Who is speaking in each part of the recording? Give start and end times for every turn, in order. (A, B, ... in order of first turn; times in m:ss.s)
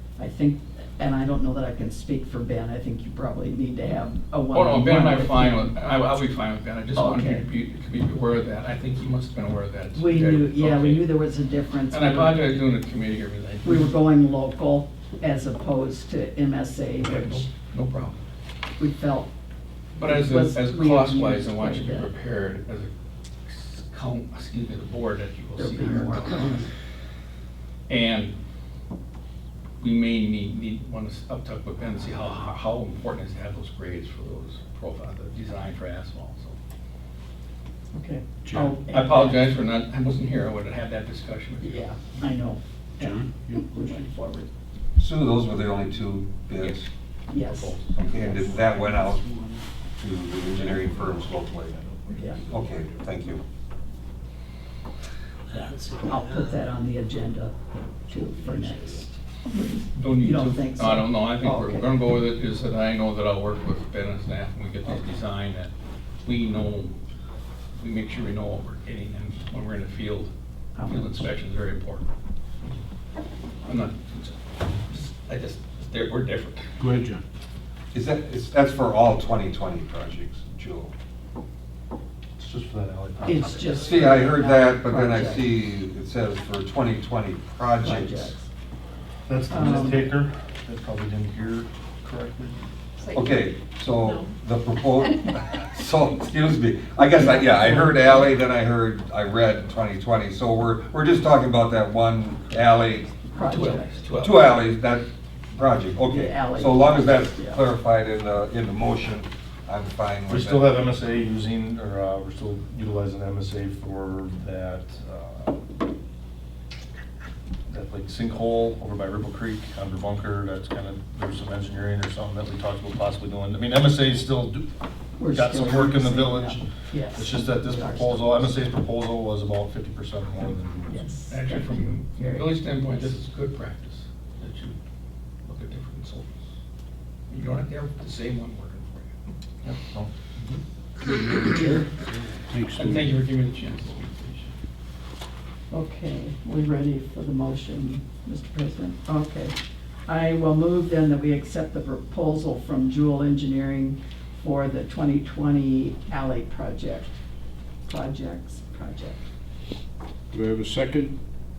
0:00.2-0:05.7 A
0:04.5-0:11.0 B
0:07.0-0:07.5 A
0:10.0-0:12.4 A
0:11.9-0:13.9 B
0:13.6-0:17.5 A
0:17.0-0:18.2 B
0:18.8-0:19.3 A
0:20.0-0:22.9 B
0:20.0-0:22.1 A
0:23.5-0:26.7 B
0:25.6-0:26.7 A
0:27.9-0:28.3 B
0:29.8-0:36.6 B
0:37.9-0:39.5 A
0:38.4-0:38.7 C
0:38.9-0:42.0 B
0:41.6-0:42.6 A
0:43.0-0:44.0 C
0:43.4-0:44.5 A
0:45.0-0:46.9 D
0:46.6-0:46.9 B
0:47.3-0:48.7 A
0:47.4-0:48.0 B
0:48.0-0:49.2 D
0:50.0-0:51.8 D
0:50.5-0:53.0 C
0:52.1-0:52.4 A
0:52.5-0:53.4 D
0:55.5-0:56.1 C
0:56.0-0:57.5 A
0:58.1-1:01.9 A
0:58.2-0:58.8 C
0:59.9-1:05.7 B
1:06.2-1:07.0 B
1:07.8-1:10.3 B
1:10.8-1:11.1 A
1:10.8-1:12.1 B
1:13.6-1:16.7 B
1:16.8-1:17.2 C
1:17.9-1:20.9 D
1:22.4-1:23.9 E
1:23.2-1:25.6 A
1:23.7-1:28.4 D
1:27.8-1:28.5 A
1:29.3-1:32.6 E
1:29.5-1:30.0 A
1:33.1-1:43.2 D
1:37.1-1:38.3 A
1:43.2-1:44.0 A
1:43.4-1:44.5 B
1:44.2-1:50.7 D
1:46.1-1:47.6 A
1:50.3-1:55.6 E
1:57.7-2:04.7 E
2:05.2-2:08.6 A
2:05.3-2:11.1 E
2:10.9-2:13.0 A
2:11.3-2:14.8 B
2:15.5-2:16.4 B
2:17.3-2:19.1 B
2:19.6-2:20.1 E
2:21.0-2:23.2 C
2:22.8-2:24.5 B
2:25.7-2:29.6 A
2:30.1-2:37.1 A
2:37.9-2:39.2 A
2:40.3-2:41.2 C